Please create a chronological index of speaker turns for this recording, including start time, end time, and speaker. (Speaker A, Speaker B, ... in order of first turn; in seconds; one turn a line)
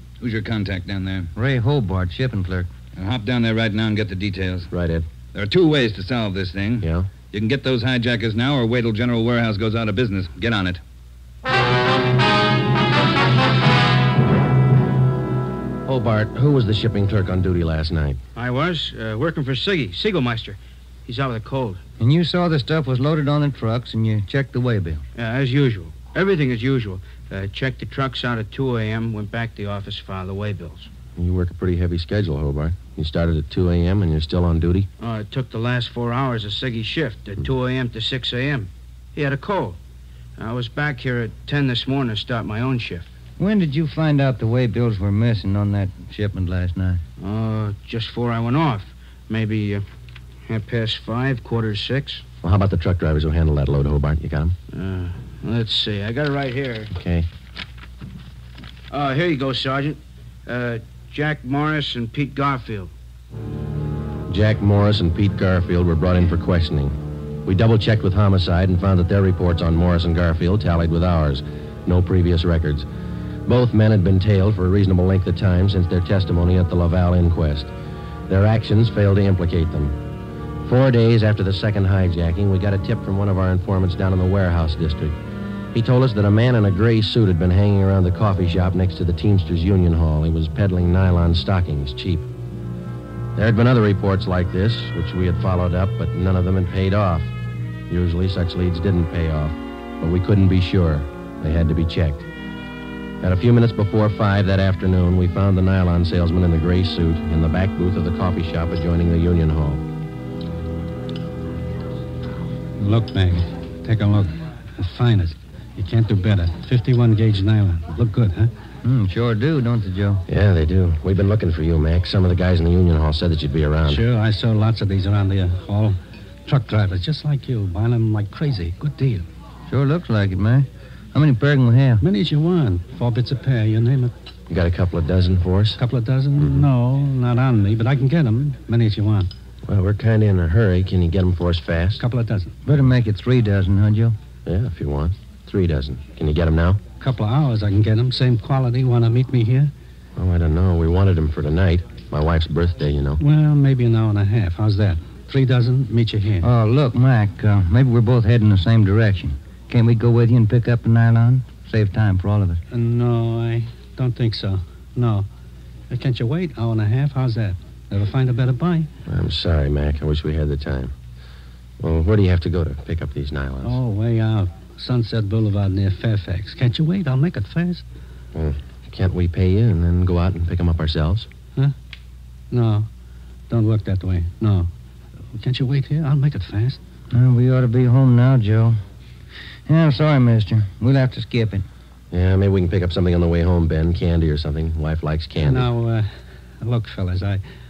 Speaker A: 0.2-1.3
Speaker B: 1.3-2.7
Speaker A: 2.9-4.7
Speaker C: 4.7-5.0
Speaker A: 5.3-10.8
Speaker C: 6.8-7.1
Speaker C: 15.8-18.2
Speaker D: 18.4-21.8
Speaker B: 22.0-25.0
Speaker D: 25.1-30.9
Speaker C: 31.1-34.9
Speaker D: 35.0-39.8
Speaker D: 40.4-43.1
Speaker B: 43.4-47.0
Speaker D: 47.2-49.8
Speaker D: 50.5-52.2
Speaker C: 52.4-54.5
Speaker D: 54.7-56.9
Speaker C: 56.9-57.3
Speaker D: 58.9-62.9
Speaker C: 64.3-72.9
Speaker C: 73.5-77.7
Speaker C: 78.3-80.0
Speaker C: 80.6-85.1
Speaker C: 85.7-92.3
Speaker C: 93.3-97.3
Speaker C: 97.9-102.2
Speaker C: 103.2-109.8
Speaker E: 112.8-118.5
Speaker B: 118.8-120.2
Speaker C: 120.3-124.0
Speaker E: 123.8-129.2
Speaker B: 129.7-132.0
Speaker E: 132.0-134.1
Speaker C: 134.5-135.8
Speaker E: 135.8-139.3
Speaker C: 139.6-142.0
Speaker E: 142.0-142.6
Speaker B: 142.6-144.2
Speaker C: 144.4-146.8
Speaker E: 147.0-149.7
Speaker C: 150.2-153.2
Speaker E: 153.2-156.5
Speaker B: 156.4-162.6
Speaker E: 162.7-165.2
Speaker E: 165.9-168.9
Speaker C: 169.1-170.9
Speaker C: 171.8-173.8
Speaker E: 173.6-177.8
Speaker C: 178.3-181.3
Speaker E: 182.5-182.9
Speaker E: 183.5-184.7
Speaker E: 185.3-186.8
Speaker B: 187.1-188.8
Speaker B: 189.7-191.7
Speaker C: 192.1-195.7
Speaker E: 195.4-196.1
Speaker E: 196.6-197.4